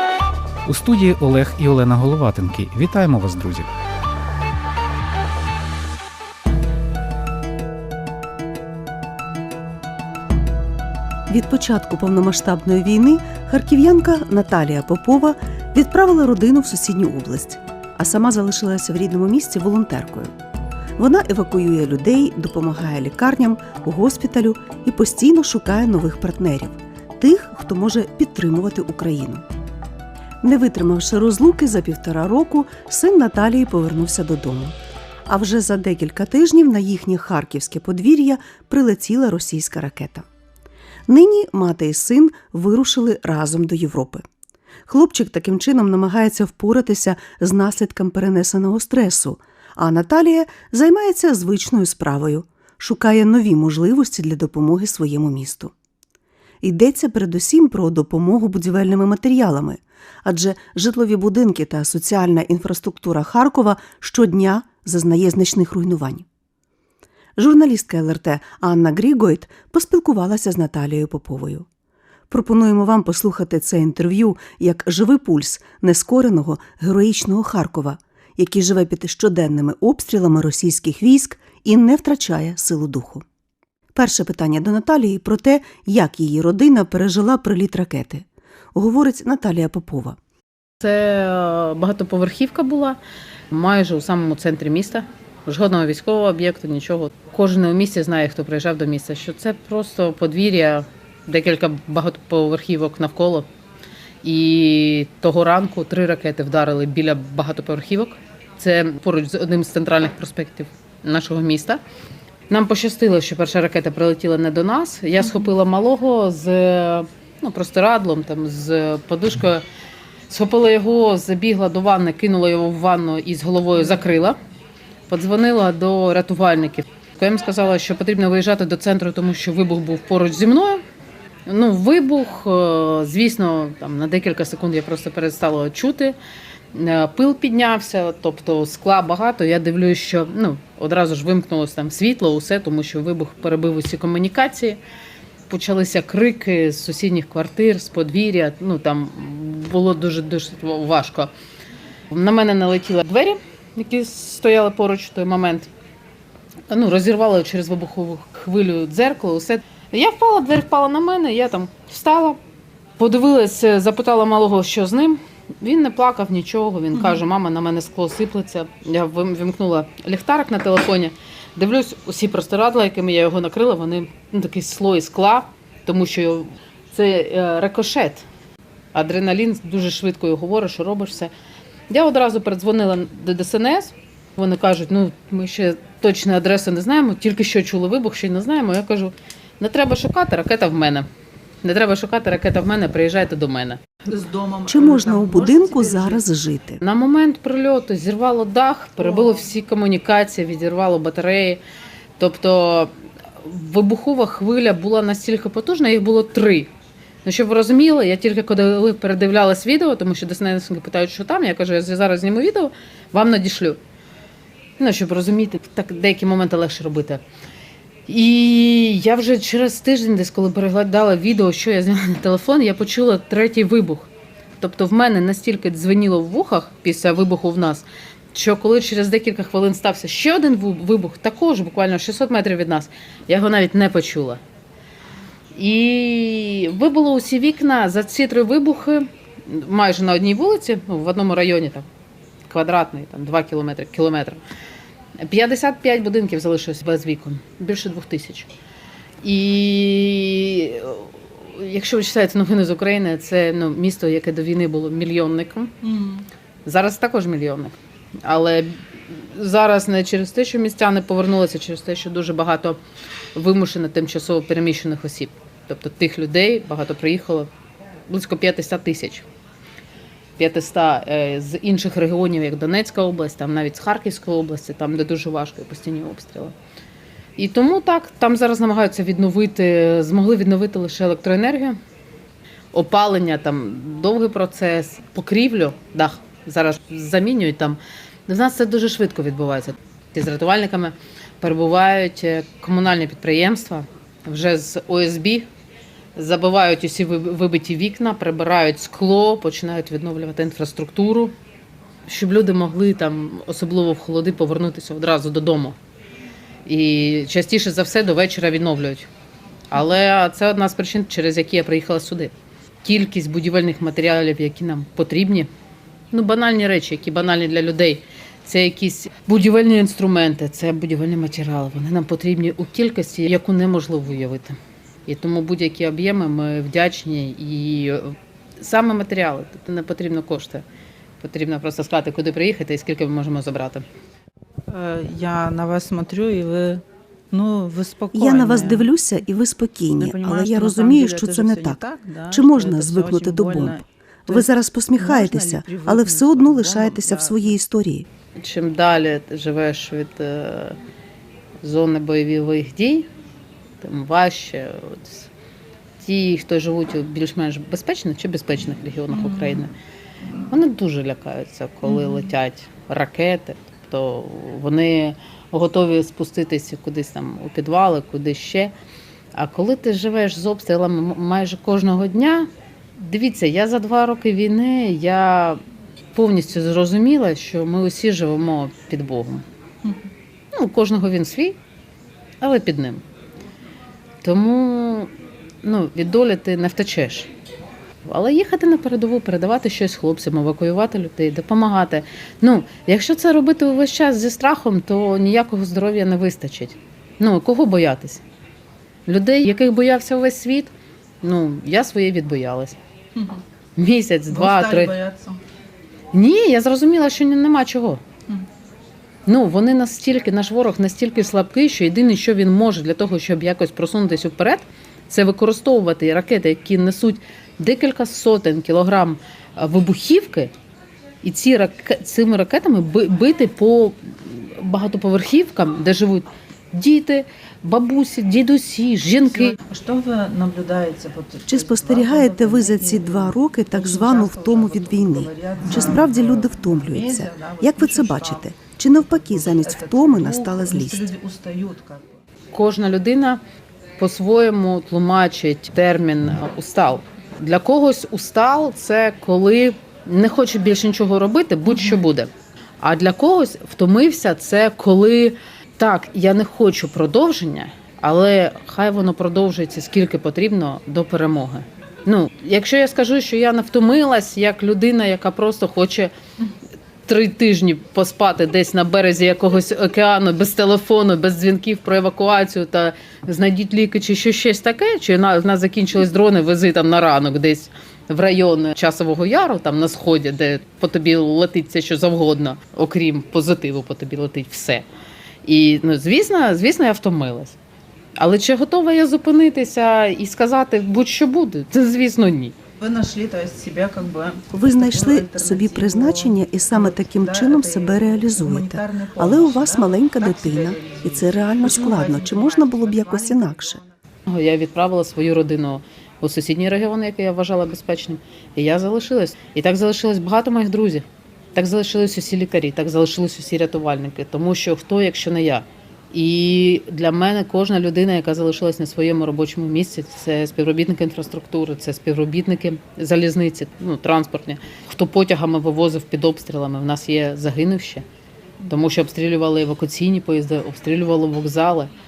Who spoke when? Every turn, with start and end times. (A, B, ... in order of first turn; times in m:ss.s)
0:00.6-0:03.7 A
0:11.3-0:20.3 B
0:21.0-0:29.4 B
0:30.4-0:34.7 B
0:35.3-0:40.2 B
0:41.1-0:44.2 B
0:44.9-0:55.7 B
0:56.6-1:06.2 B
1:07.4-1:11.6 B
1:12.3-1:23.2 B
1:24.0-1:30.2 B
1:30.8-1:33.0 C
1:33.5-1:43.5 C
1:44.2-1:51.8 C
1:52.5-1:59.6 C
2:00.3-2:04.4 C
2:05.1-2:10.8 C
2:11.4-2:16.2 C
2:16.7-2:24.8 C
2:25.5-2:31.3 C
2:32.1-2:35.7 C
2:36.7-2:42.4 C
2:43.0-2:58.2 C
2:58.9-3:01.3 C
3:01.9-3:11.1 C
3:11.6-3:13.8 C
3:14.0-3:16.2 D
3:14.7-3:16.8 B
3:16.8-3:21.6 C
3:22.2-3:26.7 C
3:27.2-3:33.8 C
3:34.8-3:37.2 C
3:38.1-3:44.1 C
3:44.6-3:54.4 C
3:55.6-4:01.9 C
4:02.5-4:04.4 C
4:05.2-4:08.5 C
4:09.2-4:15.8 C
4:15.8-4:16.2 D
4:16.6-4:22.8 C
4:23.3-4:27.5 C
4:28.1-4:29.2 C
4:30.4-4:36.5 C
4:37.4-4:41.8 C
4:42.7-4:55.5 C
4:56.2-5:01.3 C
5:02.1-5:05.8 C
5:06.6-5:09.1 C
5:09.7-5:12.3 C
5:12.8-5:15.5 C
5:16.1-5:30.6 C
5:31.2-5:33.8 C
5:34.7-5:38.9 D
5:38.1-5:41.8 B
5:40.0-5:47.6 D
5:42.3-5:48.0 B
5:48.4-5:50.8 C
5:51.6-5:53.1 C
5:53.8-5:55.3 C
5:56.0-5:59.7 C
5:59.2-5:59.6 D
6:00.5-6:08.7 C
6:01.9-6:02.2 D
6:09.3-6:15.6 C
6:16.1-6:19.4 C
6:20.5-6:21.6 C
6:22.4-6:23.0 C
6:24.2-6:25.1 C
6:25.6-6:27.3 C
6:28.0-6:38.2 C
6:39.0-6:42.8 C
6:43.8-6:44.9 C
6:44.3-6:45.4 D
6:46.1-6:48.0 C
6:49.2-7:00.5 C
7:01.2-7:09.6 C
7:09.4-7:22.1 D
7:11.5-7:21.1 B
7:22.5-7:23.4 C
7:24.0-7:46.1 C
7:47.1-8:04.8 C
8:05.4-8:07.6 C
8:08.2-8:12.5 C
8:12.8-8:23.9 D
8:14.5-8:23.8 B
8:24.3-8:48.0 C
8:48.7-8:51.9 C